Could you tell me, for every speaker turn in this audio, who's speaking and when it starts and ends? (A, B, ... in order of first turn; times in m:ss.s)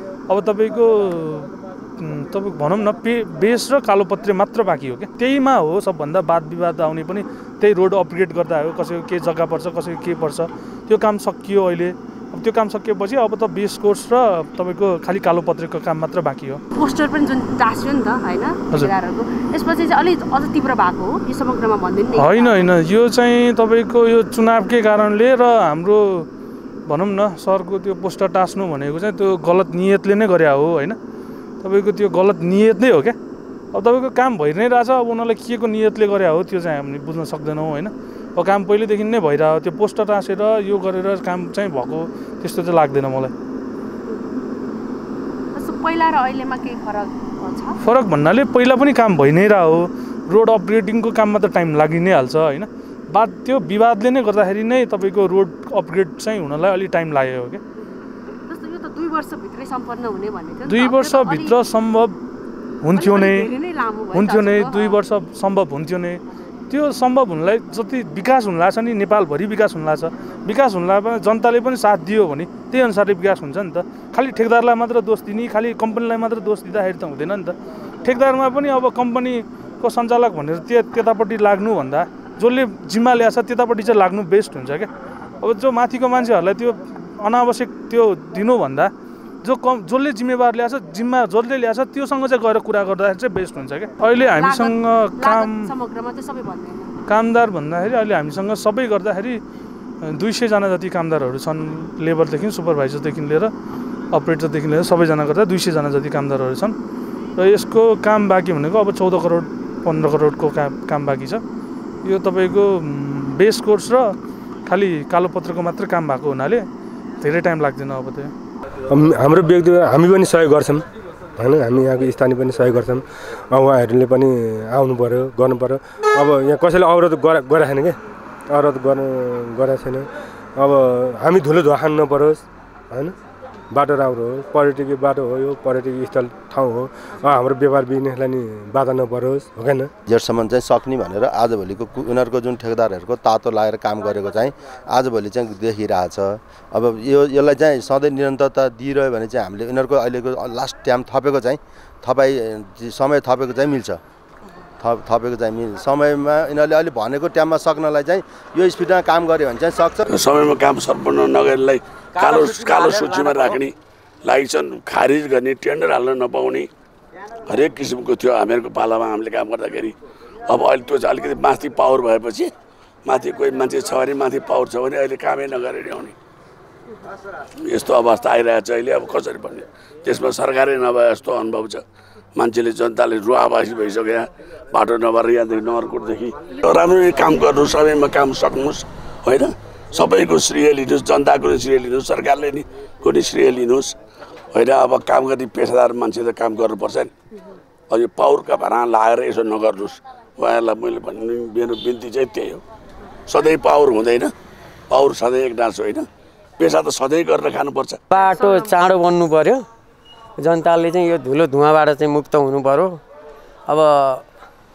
0:00.3-0:16.6 A
0:16.8-0:22.7 B
0:22.2-0:26.3 A
0:26.9-0:31.0 A
0:31.6-0:33.2 A
0:33.7-0:43.3 A
0:45.5-0:47.8 B
0:47.8-0:57.6 A
0:57.8-1:01.6 B
1:00.7-1:02.2 A
1:02.8-1:03.5 A
1:02.9-1:05.0 B
1:04.1-1:24.9 A
1:25.4-1:28.9 A
1:29.4-1:35.7 A
1:34.3-1:37.0 B
1:37.1-1:39.4 A
1:40.0-1:43.5 A
1:44.1-1:46.8 A
1:47.4-1:51.4 A
1:52.0-1:54.2 A
1:54.7-1:56.7 A
1:57.2-1:58.3 A
1:58.9-2:00.8 C
2:01.4-2:08.0 C
2:08.5-2:13.2 C
2:13.7-2:19.9 C
2:20.1-2:34.0 D
2:34.8-2:40.1 D
2:40.1-2:46.7 E
2:47.5-2:50.0 E
2:50.5-2:52.5 E
2:53.0-2:56.2 E
2:57.6-3:01.8 E
3:02.4-3:14.0 E
3:14.5-3:17.1 E
3:17.9-3:22.6 E
3:23.3-3:24.3 E
3:24.9-3:26.1 E
3:26.6-3:28.0 E
3:28.1-3:29.6 F
3:28.1-3:28.8 B
3:30.4-3:33.0 F
3:33.7-3:34.3 F